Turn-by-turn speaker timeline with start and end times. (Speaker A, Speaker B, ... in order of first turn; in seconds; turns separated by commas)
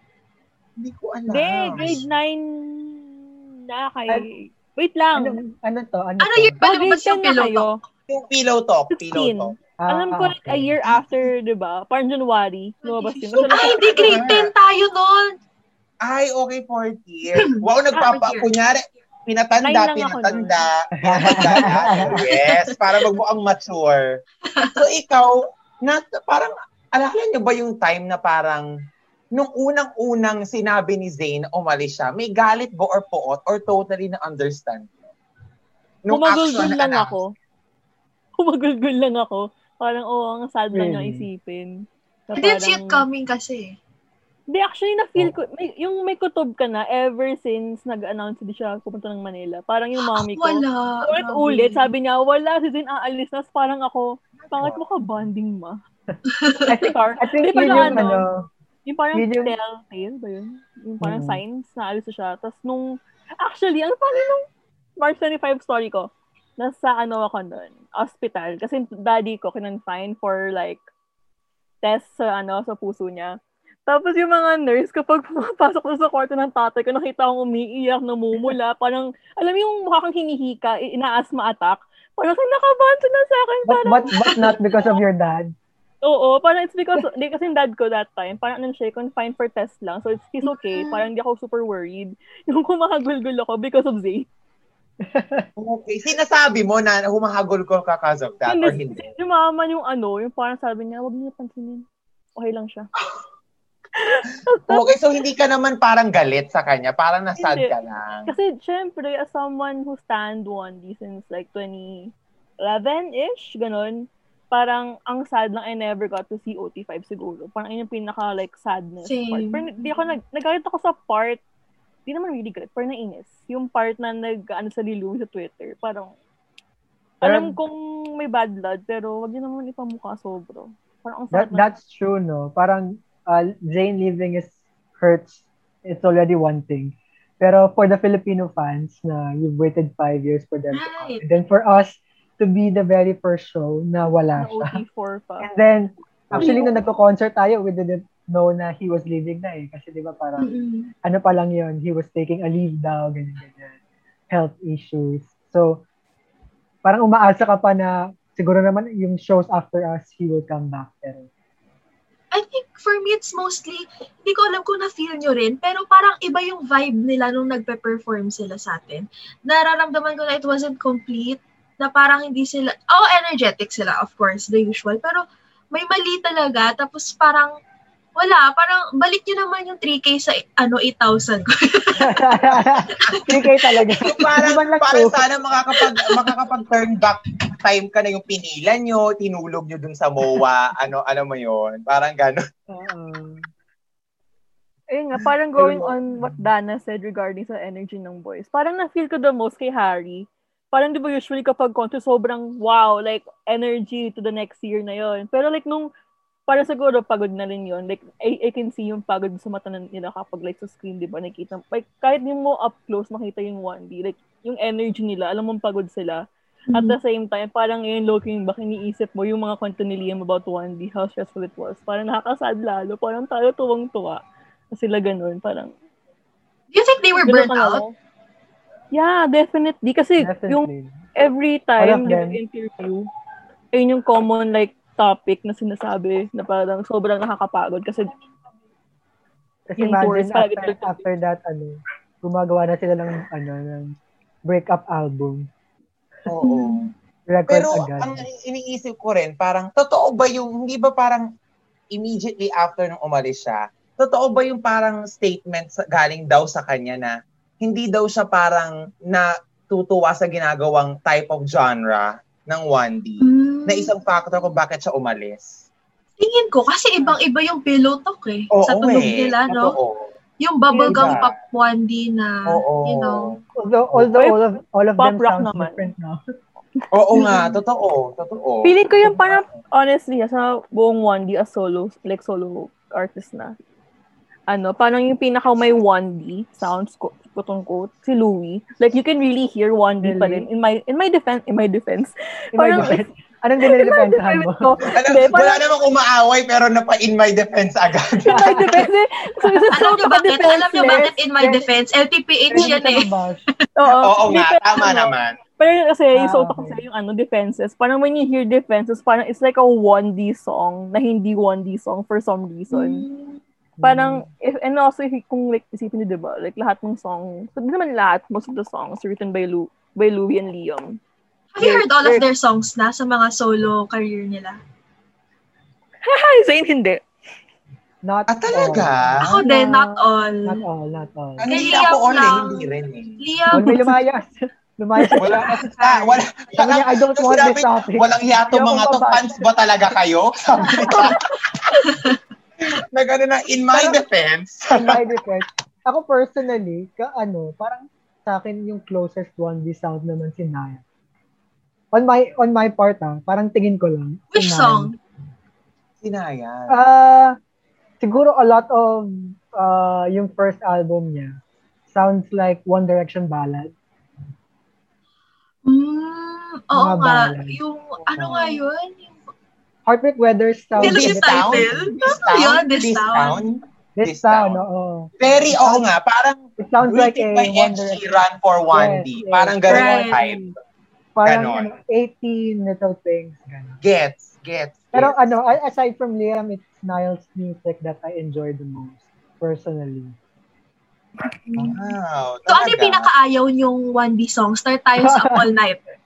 Speaker A: 0.8-2.0, Speaker B: 1.3-5.4, Speaker C: 1.7-2.0, Speaker C: 5.2-6.6, Speaker D: 6.2-7.8, Speaker B: 6.6-7.8, Speaker A: 8.1-9.5, Speaker B: 8.9-14.1, Speaker C: 9.8-10.8, Speaker D: 12.8-15.4, Speaker A: 13.5-14.5, Speaker A: 16.0-24.2, Speaker D: 17.3-18.5, Speaker B: 19.6-20.6, Speaker C: 21.0-22.2, Speaker D: 22.1-22.8, Speaker D: 24.5-24.8, Speaker A: 24.8-28.7, Speaker A: 29.3-35.0, Speaker A: 36.0-37.2, Speaker B: 36.1-37.3, Speaker B: 38.4-43.0, Speaker C: 40.7-41.3, Speaker D: 42.4-43.8, Speaker B: 44.5-55.8, Speaker D: 50.1-51.9, Speaker A: 54.4-54.8, Speaker D: 56.3-56.7, Speaker C: 56.7-58.5, Speaker B: 56.7-58.2, Speaker B: 58.9-64.5, Speaker C: 59.1-59.5, Speaker C: 61.0-61.4, Speaker B: 65.0-70.8, Speaker B: 71.8-73.4, Speaker B: 73.9-85.0, Speaker C: 83.7-85.5, Speaker B: 86.0-94.3, Speaker D: 90.5-91.0, Speaker C: 95.0-95.5, Speaker A: 95.6-99.1, Speaker B: 98.5-101.8, Speaker B: 102.4-102.9, Speaker B: 104.0-104.9, Speaker A: 104.7-108.3, Speaker B: 107.4-107.7, Speaker B: 108.3-121.4, Speaker D: 119.0-119.7, Speaker B: 122.1-126.1, Speaker B: 127.2-131.7, Speaker C: 127.2-127.5, Speaker C: 131.3-144.8, Speaker D: 140.7-141.2, Speaker B: 144.4-145.5, Speaker C: 145.4-150.5, Speaker D: 146.4-146.7, Speaker D: 150.4-150.9, Speaker C: 151.0-153.8, Speaker C: 154.3-155.8, Speaker C: 156.8-161.3, Speaker D: 162.3-177.6, Speaker D: 178.2-182.2, Speaker C: 182.0-185.2, Speaker D: 183.0-184.3, Speaker A: 184.1-192.4, Speaker D: 185.8-186.3, Speaker C: 192.7-193.5, Speaker B: 194.9-205.9, Speaker C: 195.6-196.5, Speaker B: 206.5-216.2, Speaker D: 216.7-217.0, Speaker B: 216.7-224.2, Speaker B: 224.7-225.7, Speaker D: 226.7-227.8, Speaker B: 227.2-227.9, Speaker B: 228.9-233.1, Speaker C: 230.2-231.0, Speaker C: 231.8-232.4, Speaker B: 233.7-238.1, Speaker C: 239.7-244.0, Speaker B: 239.8-241.1, Speaker C: 244.5-245.5, Speaker A: 246.3-246.9, Speaker D: 246.4-246.9, Speaker C: 247.3-248.3, Speaker A: 247.5-251.3, Speaker A: 251.9-265.6, Speaker D: 263.2-263.9, Speaker D: 266.2-269.8, Speaker A: 268.5-270.1, Speaker D: 270.4-273.3, Speaker B: 270.7-271.2, Speaker A: 270.9-271.3, Speaker A: 272.5-273.4, Speaker C: 273.6-276.2, Speaker B: 274.1-274.4, Speaker B: 275.0-275.9, Speaker A: 276.9-279.6, Speaker D: 277.1-277.6, Speaker B: 278.6-283.6, Speaker B: 284.5-293.0, Speaker C: 290.0-290.5, Speaker C: 292.6-294.7, Speaker B: 293.6-295.6, Speaker A: 294.9-298.5, Speaker B: 298.3-301.1, Speaker C: 298.3-298.9, Speaker D: 299.7-303.1, Speaker C: 300.8-301.7, Speaker C: 302.5-303.4, Speaker B: 303.8-313.1, Speaker A: 304.0-305.4, Speaker C: 306.2-306.8, Speaker D: 312.7-313.4, Speaker C: 313.8-314.3, Speaker B: 313.8-321.0, Speaker D: 321.5-324.6, Speaker B: 321.6-322.3, Speaker B: 326.1-327.0, Speaker C: 328.0-331.5, Speaker A: 328.3-329.4, Speaker D: 329.2-330.6, Speaker A: 331.4-333.2, Speaker D: 331.5-333.9, Speaker C: 333.5-335.7, Speaker A: 335.2-341.5, Speaker D: 335.6-336.2, Speaker C: 336.5-339.4, Speaker C: 340.6-341.2, Speaker D: 341.9-342.2, Speaker A: 342.7-345.0, Speaker C: 343.7-344.0, Speaker C: 344.7-350.8, Speaker C: 351.9-354.9, Speaker D: 354.3-355.0, Speaker A: 356.0-356.8, Speaker C: 356.7-357.4, Speaker C: 358.0-361.4, Speaker C: 361.9-363.7, Speaker D: 365.6-369.2, Speaker C: 366.7-367.6, Speaker C: 368.1-368.6, Speaker C: 369.9-371.9, Speaker A: 370.8-374.6, Speaker D: 370.8-373.4, Speaker C: 374.0-375.9, Speaker A: 375.2-380.5, Speaker C: 376.6-378.0, Speaker C: 378.7-380.5, Speaker D: 379.7-380.2, Speaker C: 381.2-383.8, Speaker A: 381.2-381.7, Speaker A: 383.8-385.2, Speaker C: 384.9-390.2, Speaker D: 391.5-391.9, Speaker A: 391.6-393.1, Speaker D: 392.5-395.8, Speaker C: 395.0-395.4